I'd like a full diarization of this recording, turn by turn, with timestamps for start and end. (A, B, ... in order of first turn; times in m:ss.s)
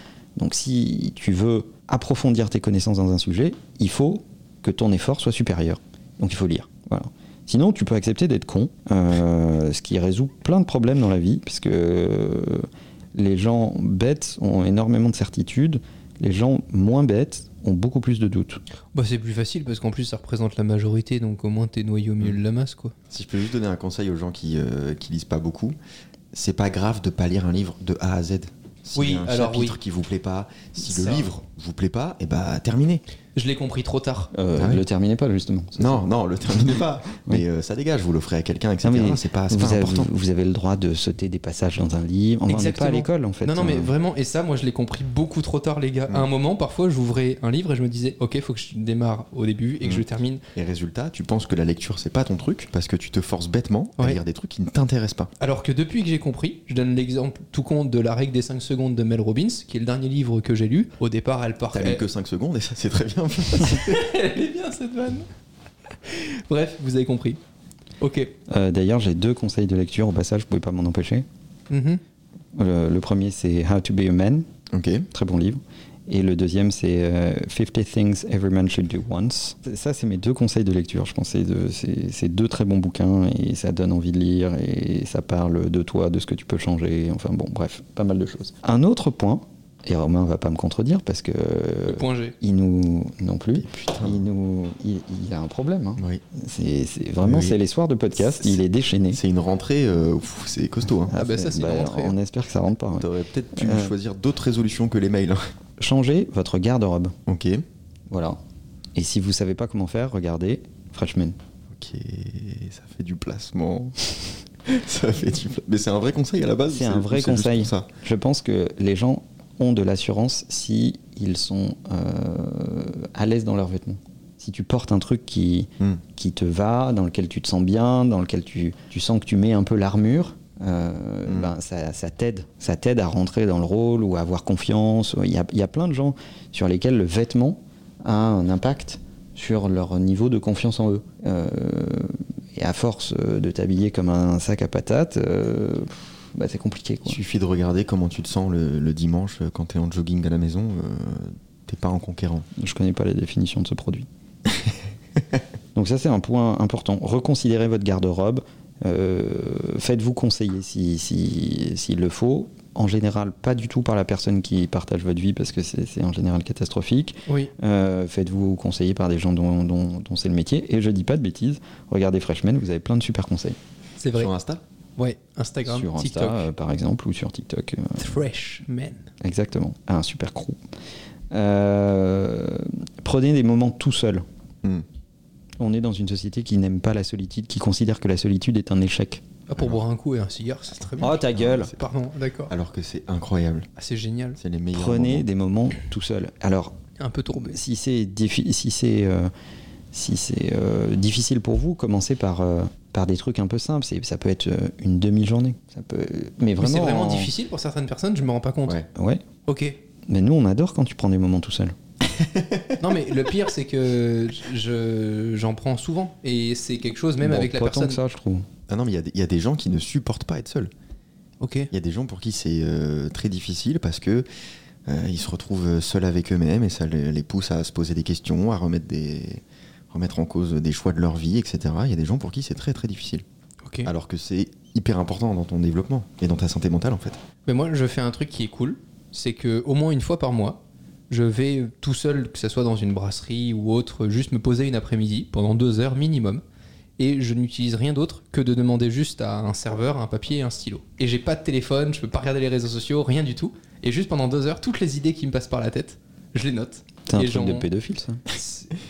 0:00.4-0:18.6 A
0:18.9-0:22.9 B
0:23.1-0:25.7 C
0:26.3-0:33.0 C
0:28.9-0:29.8 B
0:30.8-0:31.3 B
0:33.4-0:34.3 B
0:34.3-0:36.0 A
0:34.6-0:34.8 C
0:35.8-0:40.1 C
0:36.6-0:37.4 A
0:38.8-0:43.9 A
0:42.5-0:50.4 B
0:50.5-0:55.3 C
0:55.4-1:02.0 B
1:01.7-1:04.0 C
1:03.6-1:05.3 B
1:06.0-1:07.4 B
1:08.0-1:08.3 B
1:08.5-1:11.2 A
1:11.7-1:12.0 B
1:12.5-1:14.5 A
1:14.7-1:15.1 C
1:15.1-1:39.2 A
1:31.9-1:32.3 B
1:33.6-1:34.2 C
1:37.2-1:37.5 C
1:39.1-1:41.1 C
1:41.1-1:43.9 A
1:41.1-1:42.2 B
1:43.0-1:45.4 C
1:45.8-1:47.2 A
1:47.3-1:47.6 C
1:48.1-1:48.4 A
1:48.9-1:51.4 A
1:51.7-1:57.9 C
1:56.7-2:27.2 A
2:27.0-2:32.5 C
2:32.6-2:34.1 A
2:35.7-2:53.6 A
2:47.3-2:47.5 B
2:54.0-2:54.3 B
2:54.1-2:54.6 C
2:55.0-2:56.5 B
2:55.6-2:58.2 A
2:58.0-2:59.0 B
2:59.2-3:00.6 A
3:01.3-3:04.2 A
3:05.6-3:09.2 A
3:09.5-3:12.5 B
3:11.0-3:11.7 C
3:11.0-3:11.7 A
3:12.5-3:13.7 C
3:13.8-3:14.4 B
3:14.4-3:15.2 C
3:14.7-3:16.8 A
3:17.0-3:17.6 B
3:17.3-3:19.3 A
3:19.9-3:27.3 A
3:26.6-3:28.8 B
3:28.9-3:29.2 A
3:29.4-3:29.8 B
3:30.1-3:31.8 A
3:32.2-3:32.7 C
3:32.8-3:38.0 B
3:37.2-3:38.4 A
3:38.7-3:40.7 C
3:41.4-3:41.7 B
3:41.7-3:44.2 C
3:44.8-3:53.2 C
3:53.6-3:53.9 B
3:53.8-3:57.2 C
3:57.4-4:06.4 B
4:07.0-4:17.7 B
4:17.1-4:18.2 A
4:18.3-4:18.7 B